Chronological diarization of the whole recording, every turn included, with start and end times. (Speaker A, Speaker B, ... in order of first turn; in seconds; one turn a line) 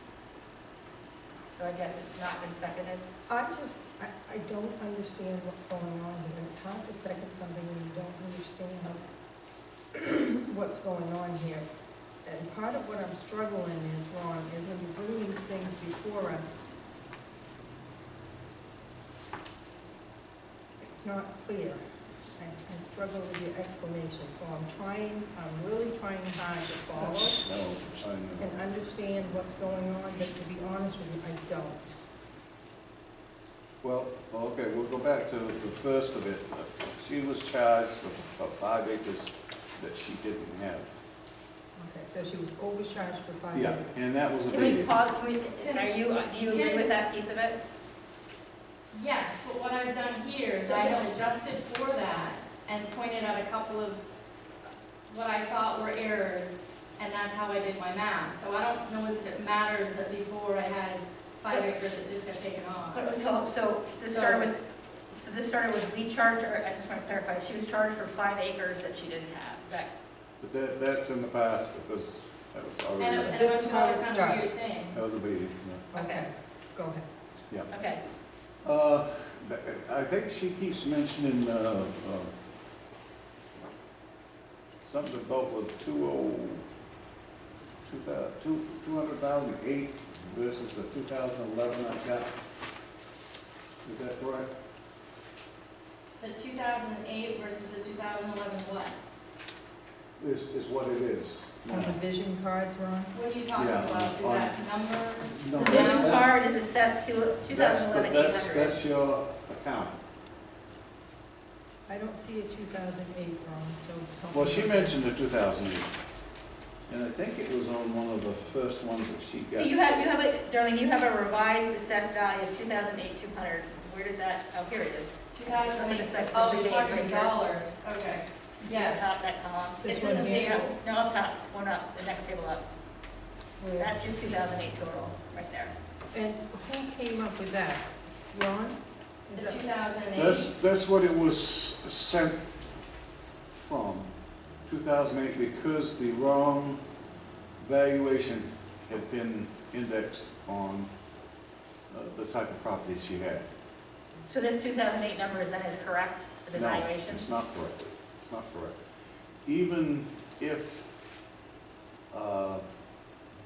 Speaker A: 1.5-3.0
Speaker B: 3.3-9.0
Speaker B: 9.9-11.7
Speaker B: 12.2-16.6
Speaker B: 20.8-21.8
Speaker B: 22.4-27.4
Speaker C: 26.9-28.5
Speaker B: 28.4-31.9
Speaker C: 33.8-40.9
Speaker B: 41.8-43.9
Speaker C: 43.5-44.9
Speaker A: 44.5-47.6
Speaker D: 45.6-45.9
Speaker D: 46.5-46.9
Speaker D: 48.9-54.0
Speaker A: 50.7-51.1
Speaker D: 55.1-63.0
Speaker A: 62.9-69.9
Speaker D: 64.1-64.5
Speaker C: 70.4-73.4
Speaker D: 73.0-75.1
Speaker B: 73.3-74.5
Speaker C: 74.9-75.9
Speaker B: 75.9-77.1
Speaker A: 76.0-76.3
Speaker A: 77.7-78.0
Speaker C: 78.6-82.3
Speaker C: 84.8-86.6
Speaker C: 87.9-92.3
Speaker C: 93.8-94.5
Speaker D: 96.2-99.0
Speaker C: 100.2-102.0
Speaker B: 101.7-103.1
Speaker D: 103.1-106.3
Speaker C: 103.5-104.6
Speaker C: 105.2-106.3
Speaker A: 105.6-108.8
Speaker C: 107.5-110.0
Speaker B: 111.9-115.0
Speaker C: 114.3-115.9
Speaker C: 116.9-119.9
Speaker A: 119.5-127.4
Speaker D: 125.3-129.2
Speaker A: 128.7-132.6
Speaker B: 129.8-130.7
Speaker D: 129.8-130.8
Speaker B: 133.6-133.9
Speaker A: 133.8-135.7
Speaker B: 136.1-139.6
Speaker D: 139.4-140.5
Speaker C: 140.2-142.4
Speaker C: 143.7-144.1
Speaker C: 144.7-146.8
Speaker C: 147.6-150.9
Speaker C: 151.9-153.5
Speaker A: 154.3-157.3
Speaker C: 156.5-158.8
Speaker C: 159.5-160.9
Speaker C: 162.1-162.6